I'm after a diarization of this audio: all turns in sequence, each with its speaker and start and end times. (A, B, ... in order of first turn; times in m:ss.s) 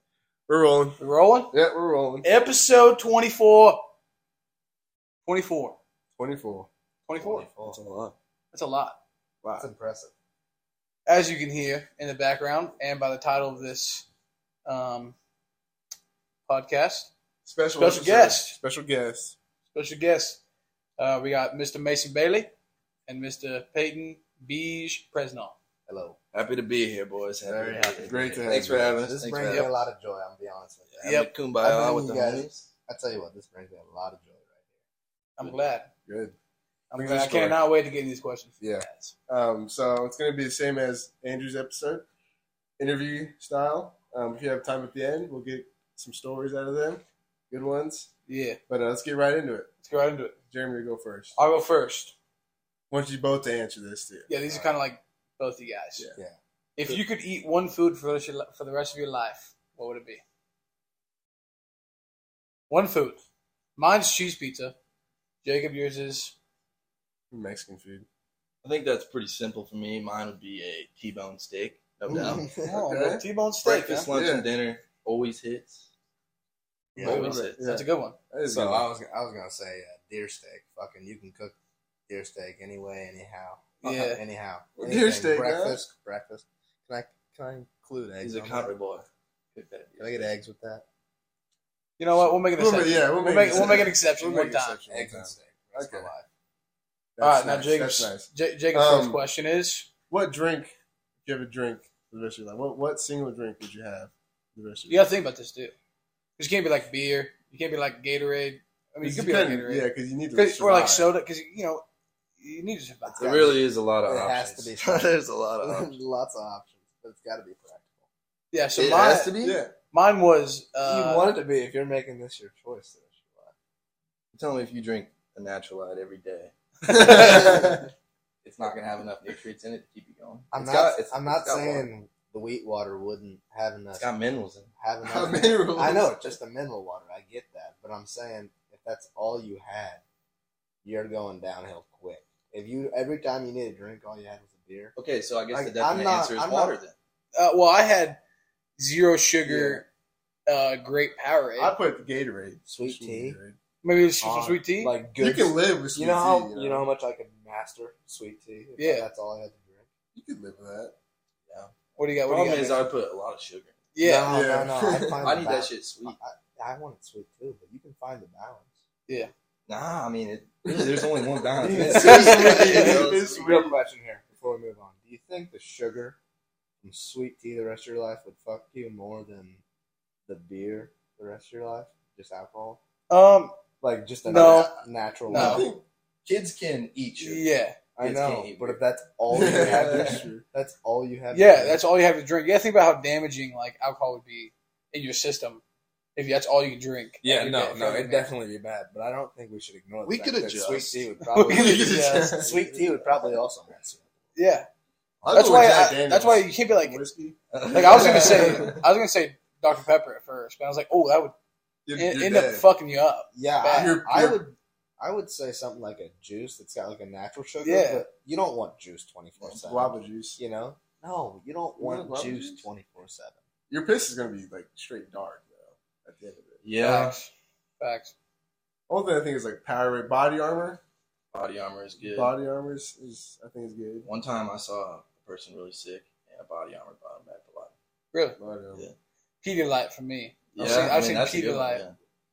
0:00.5-0:02.3 A
0:01.0-0:01.5 B
0:02.2-0:03.9 B
0:05.2-0:05.8 B
0:06.2-0:06.7 A
0:07.0-0:07.5 B
0:07.2-0:07.8 C
0:07.6-0:08.1 A
0:08.5-0:09.0 B
0:09.4-0:09.7 A
0:09.6-0:10.1 C
0:11.0-0:14.1 B
0:14.6-0:15.2 B
0:16.5-0:17.1 B
0:17.4-0:19.4 A
0:17.8-0:18.6 B
0:19.7-0:20.4 B
0:21.0-0:22.5 B
0:23.1-0:25.6 B
0:25.9-0:26.2 C
0:26.3-0:29.7 D
0:27.4-0:31.1 C
0:28.0-0:29.0 A
0:29.5-0:29.8 B
0:31.0-0:32.7 D
0:31.0-0:31.3 B
0:31.6-0:34.6 C
0:35.4-0:35.9 B
0:36.0-0:36.3 A
0:36.9-0:39.1 B
0:36.9-0:37.6 A
0:38.6-0:42.1 A
0:42.8-0:48.1 A
0:48.3-0:48.6 B
0:48.7-0:49.7 A
0:49.8-0:50.4 B
0:50.4-0:51.4 A
0:51.4-0:52.1 B
0:52.9-0:54.3 A
0:54.3-0:56.1 B
0:56.8-1:00.2 B
1:02.7-1:03.2 B
1:03.8-1:04.7 B
1:05.4-1:06.3 B
1:07.3-1:08.0 A
1:08.6-1:12.5 D
1:12.1-1:12.6 C
1:12.6-1:14.1 B
1:12.6-1:13.2 A
1:13.6-1:15.8 D
1:14.1-1:14.5 A
1:16.9-1:17.3 C
1:17.0-1:17.6 D
1:17.0-1:18.9 A
1:17.0-1:18.2 B
1:18.4-1:21.5 C
1:22.1-1:28.7 C
1:23.8-1:24.2 B
1:24.8-1:25.8 A
1:28.2-1:30.3 D
1:30.0-1:30.8 C
1:32.0-1:34.8 B
1:32.5-1:36.1 A
1:34.9-1:36.2 C
1:37.2-1:39.2 A
1:37.2-1:39.9 B
1:40.1-1:45.1 A
1:44.9-1:45.7 B
1:46.4-1:51.8 B
1:49.0-1:51.1 A
1:52.4-1:53.5 B
1:53.0-1:55.1 C
1:53.2-1:55.9 D
1:55.6-1:58.0 C
1:58.5-1:59.3 B
1:58.8-1:59.6 D
1:59.4-1:59.7 A
1:59.9-2:01.3 B
2:00.8-2:03.5 C
2:04.3-2:07.8 D
2:06.9-2:07.7 B
2:07.1-2:07.6 A
2:08.4-2:11.9 D
2:10.5-2:14.0 C
2:13.9-2:14.7 D
2:14.8-2:20.0 C
2:15.0-2:16.3 A
2:20.8-2:24.9 C
2:25.0-2:26.9 D
2:25.5-2:26.8 C
2:27.3-2:28.2 B
2:28.8-2:29.8 B
2:29.5-2:29.8 A
2:30.5-2:31.8 B
2:31.6-2:33.6 A
2:32.7-2:33.4 C
2:33.8-2:34.9 B
2:34.2-2:39.9 C
2:35.2-2:36.8 A
2:38.8-2:39.1 B
2:40.1-2:40.9 A
2:41.5-2:41.7 D
2:42.0-2:42.9 B
2:42.2-2:43.8 D
2:43.9-2:44.4 B
2:44.0-2:48.7 C
2:44.3-2:45.3 A
2:45.2-2:46.2 D
2:49.7-2:53.4 D
2:50.7-2:53.7 A
2:51.6-2:56.2 C
2:52.1-2:52.9 B
2:56.8-2:59.6 C
3:00.3-3:02.8 C
3:03.1-3:03.6 B
3:03.8-3:05.7 C
3:04.2-3:04.7 B
3:04.4-3:04.7 A
3:05.3-3:05.6 B
3:05.3-3:05.8 A
3:06.2-3:07.4 D
3:07.2-3:07.8 B
3:08.0-3:11.8 C
3:08.0-3:08.8 D
3:09.3-3:10.2 D
3:09.3-3:10.4 A
3:11.3-3:15.6 B
3:16.2-3:18.3 B
3:17.2-3:24.1 C
3:20.0-3:21.0 D
3:21.3-3:22.6 B
3:21.5-3:22.6 A
3:24.3-3:24.7 B
3:25.2-3:25.6 C
3:25.2-3:28.7 A
3:25.3-3:27.0 B
3:27.5-3:28.8 D
3:27.7-3:31.3 B
3:31.8-3:32.7 A
3:31.9-3:33.9 B
3:33.3-3:43.4 C
3:33.7-3:34.4 A
3:37.6-3:38.0 B
3:39.5-3:40.4 A
3:41.8-3:42.6 A
3:43.7-3:46.6 A
3:46.6-3:47.2 D
3:46.8-3:48.1 B
3:48.9-3:50.8 A
3:51.3-3:52.3 D
3:52.0-3:54.1 A
3:54.0-3:57.7 D
3:58.1-3:58.4 B
3:58.4-3:58.9 A
3:59.4-4:01.8 B
4:00.5-4:01.9 D
4:00.6-4:00.9 A